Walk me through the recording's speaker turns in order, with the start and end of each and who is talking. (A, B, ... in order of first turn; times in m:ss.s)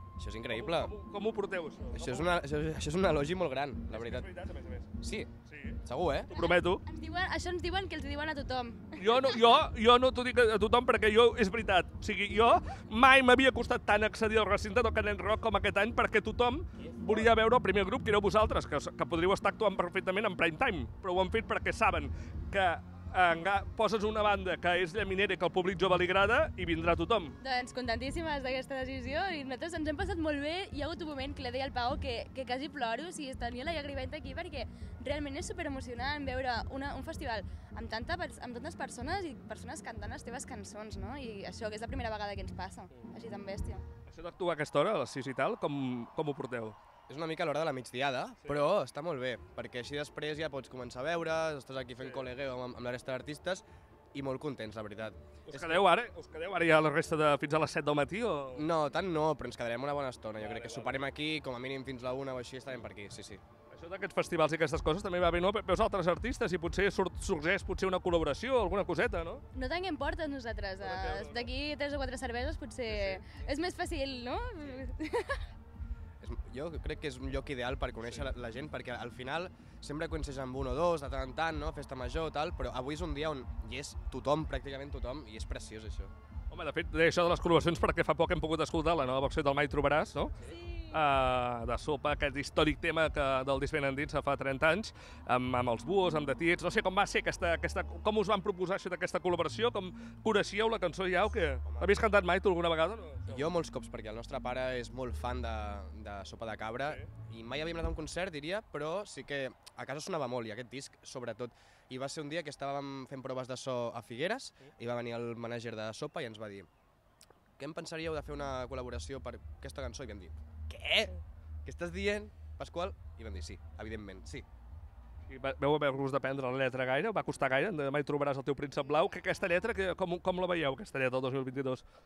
0:00.2-0:00.9 A
0:00.5-0:02.3 B
0:01.9-0:04.3 A
0:03.9-0:04.9 B
0:05.0-0:05.3 A
0:05.4-0:06.8 B
0:05.8-0:06.3 A
0:06.3-0:09.6 C
0:09.0-0:27.4 B
0:16.9-0:17.2 A
0:27.4-0:43.8 C
0:44.1-0:46.8 B
0:47.1-0:55.8 A
0:48.4-0:48.7 B
0:52.0-0:52.3 B
0:55.5-0:58.6 B
0:58.5-1:03.4 A
1:00.4-1:01.1 B
1:03.7-1:09.4 B
1:09.5-1:15.5 C
1:10.8-1:11.5 B
1:12.9-1:13.2 B
1:16.2-1:26.1 A
1:18.0-1:18.3 B
1:26.5-1:43.5 B
1:41.6-1:41.9 A
1:43.3-1:56.7 A
1:57.6-2:04.4 A
2:05.3-2:11.8 B